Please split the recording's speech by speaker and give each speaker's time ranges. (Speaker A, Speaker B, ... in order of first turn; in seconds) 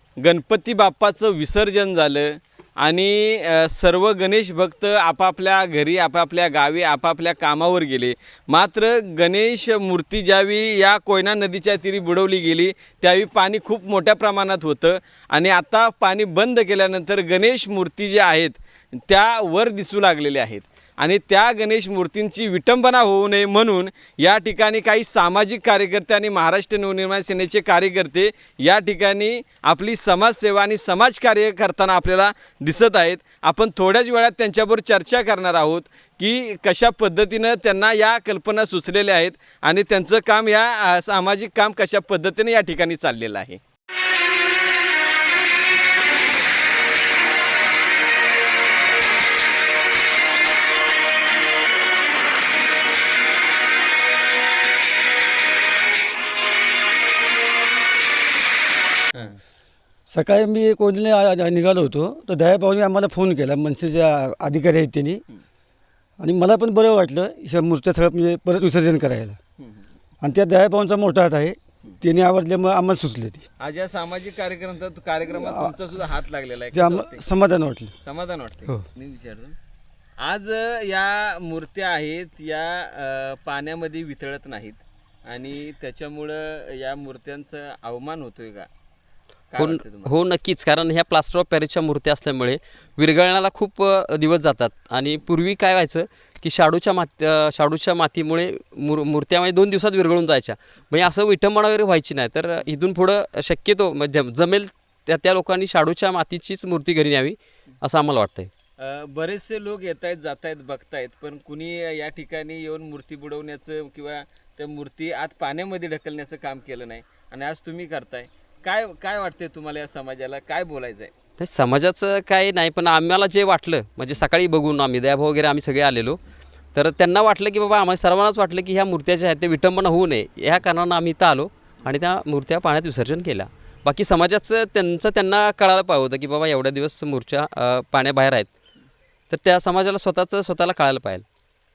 Speaker A: 0.2-43.6, 73.6-77.3, 78.0-79.6, 80.2-88.7, 89.5-90.1, 108.8-121.1
Speaker B: 60.1-65.2, 66.2-69.4, 70.2-73.5, 75.3-75.7, 76.7-77.9
Speaker C: 89.6-108.5, 121.4-126.2, 126.7-138.5, 139.3-141.2